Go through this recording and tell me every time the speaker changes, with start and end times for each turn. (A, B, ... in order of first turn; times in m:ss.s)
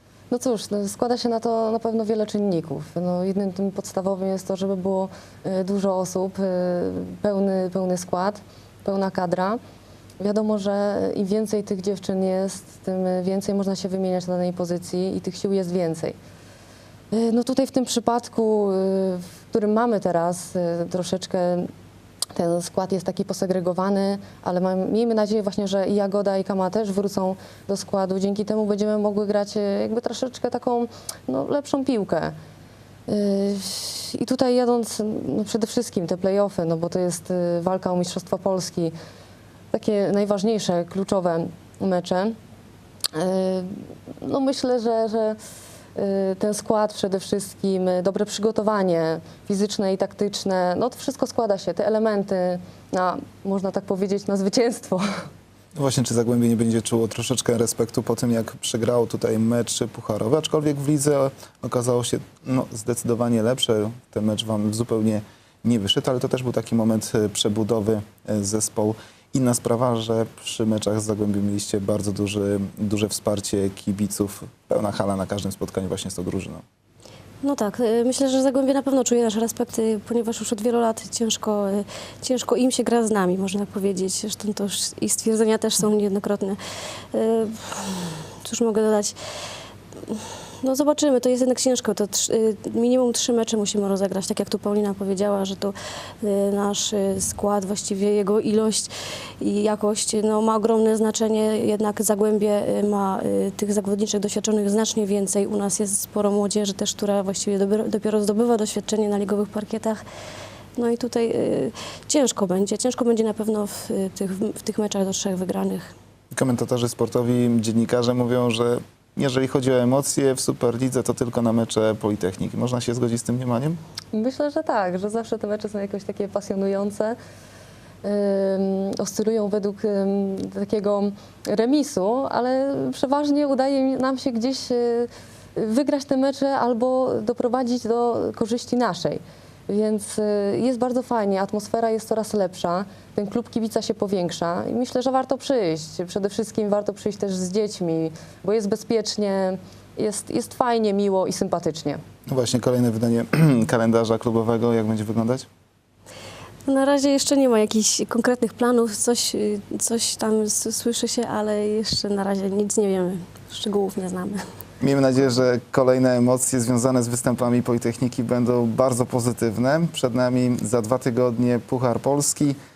0:00.3-0:09.6 A
0:10.2-0:16.2 A
0:17.1-0:21.7 A
0:22.3-0:32.4 A
0:33.1-0:38.9 A
0:39.7-0:42.4 A
0:43.1-0:45.4 A
0:46.0-0:55.2 A
0:55.8-1:16.6 B
1:17.4-1:26.6 C
1:27.1-1:29.2 C
1:30.1-1:50.0 C
1:50.8-1:55.9 C
1:56.3-2:03.8 B
2:04.1-2:07.2 A
2:08.0-2:32.0 A
2:32.3-2:35.5 B
2:36.7-2:44.4 C
2:44.8-2:52.6 B